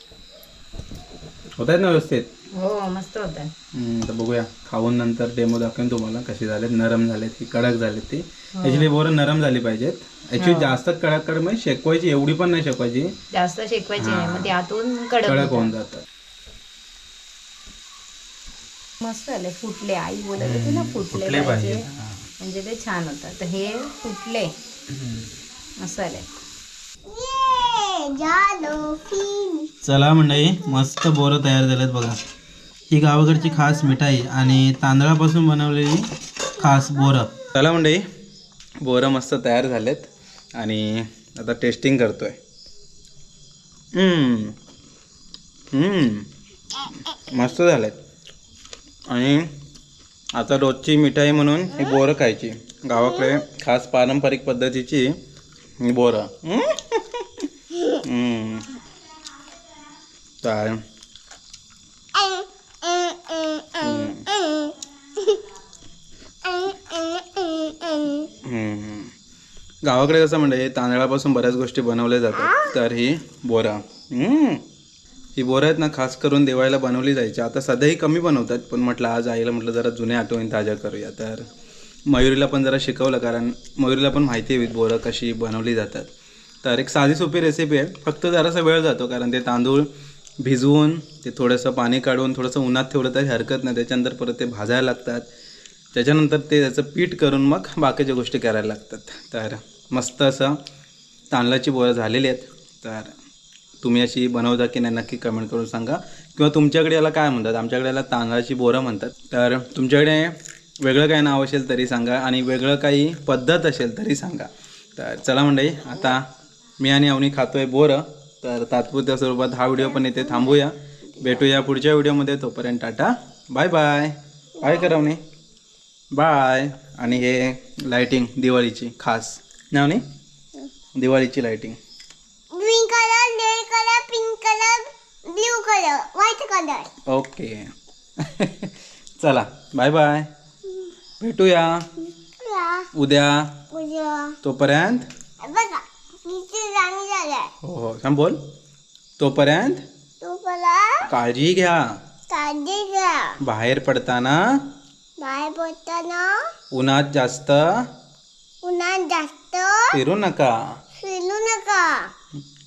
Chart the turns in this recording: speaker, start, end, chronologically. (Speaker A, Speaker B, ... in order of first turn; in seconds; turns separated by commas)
Speaker A: 1.6-2.3, Speaker B: 2.5-3.5, Speaker A: 3.7-13.1, Speaker B: 8.6-8.9, Speaker B: 10.4-10.8, Speaker B: 13.3-15.7, Speaker A: 14.0-14.5, Speaker A: 15.2-16.0, Speaker B: 19.0-21.8, Speaker A: 20.4-22.3, Speaker B: 22.4-24.5, Speaker A: 24.9-25.3, Speaker B: 25.8-26.2, Speaker C: 27.1-29.7, Speaker A: 29.8-32.2, Speaker A: 32.9-38.0, Speaker C: 33.3-33.8, Speaker C: 36.6-37.3, Speaker A: 38.8-42.4, Speaker A: 43.9-44.5, Speaker A: 45.7-46.3, Speaker A: 47.2-48.0, Speaker A: 49.1-49.5, Speaker A: 50.4-55.2, Speaker C: 52.9-53.4, Speaker A: 55.8-57.5, Speaker A: 58.0-58.7, Speaker A: 60.4-60.8, Speaker C: 62.1-65.4, Speaker A: 63.8-64.2, Speaker C: 66.4-68.3, Speaker A: 68.4-69.1, Speaker A: 69.8-74.6, Speaker C: 72.3-72.7, Speaker A: 75.3-81.5, Speaker A: 82.1-86.1, Speaker A: 86.6-89.9, Speaker A: 90.4-95.3, Speaker A: 95.9-100.6, Speaker A: 101.3-103.1, Speaker A: 103.8-116.2, Speaker A: 116.8-125.2, Speaker C: 120.0-120.5, Speaker C: 124.6-124.9, Speaker A: 126.1-130.0, Speaker A: 130.9-131.8, Speaker C: 132.5-136.9, Speaker A: 137.1-140.3, Speaker A: 141.2-141.9, Speaker C: 142.4-142.9, Speaker A: 142.9-143.6, Speaker C: 143.7-144.3, Speaker A: 144.4-145.1, Speaker C: 145.4-147.5, Speaker A: 147.6-148.4, Speaker A: 149.2-149.8, Speaker C: 150.2-151.1, Speaker A: 151.1-151.8, Speaker C: 152.3-153.4, Speaker A: 153.4-154.4, Speaker C: 155.2-156.3, Speaker A: 156.7-157.8, Speaker C: 158.6-160.0, Speaker A: 159.9-160.5, Speaker C: 161.0-162.1